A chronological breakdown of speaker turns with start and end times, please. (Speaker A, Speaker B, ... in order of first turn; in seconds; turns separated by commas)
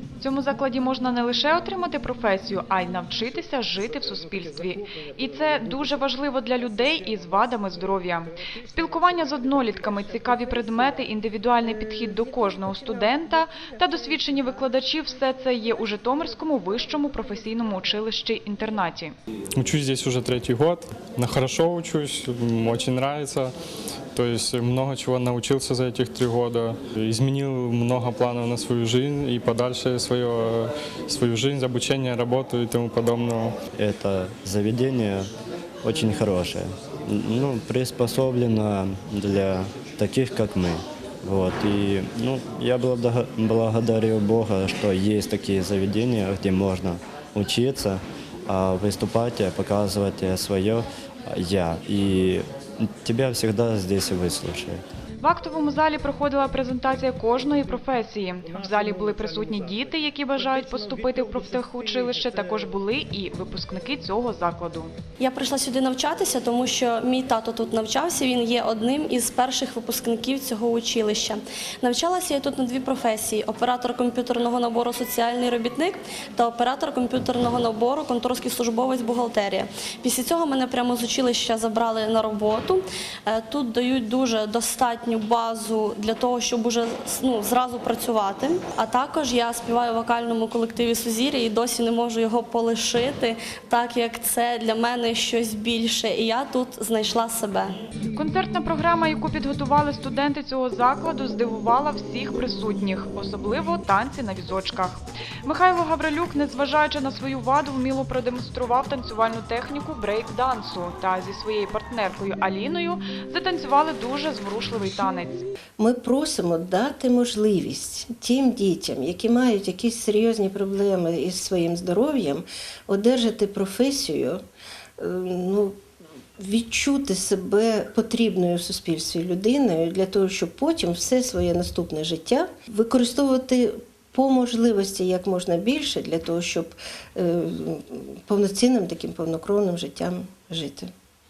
Speaker A: 0.2-19.1, Speaker B: 19.6-23.5, Speaker B: 24.1-33.5, Speaker C: 33.8-35.3, Speaker C: 35.8-54.8, Speaker A: 55.2-64.9, Speaker D: 65.2-97.8, Speaker A: 98.2-115.5, Speaker E: 115.8-124.4, Speaker E: 125.0-125.8, Speaker E: 126.4-140.9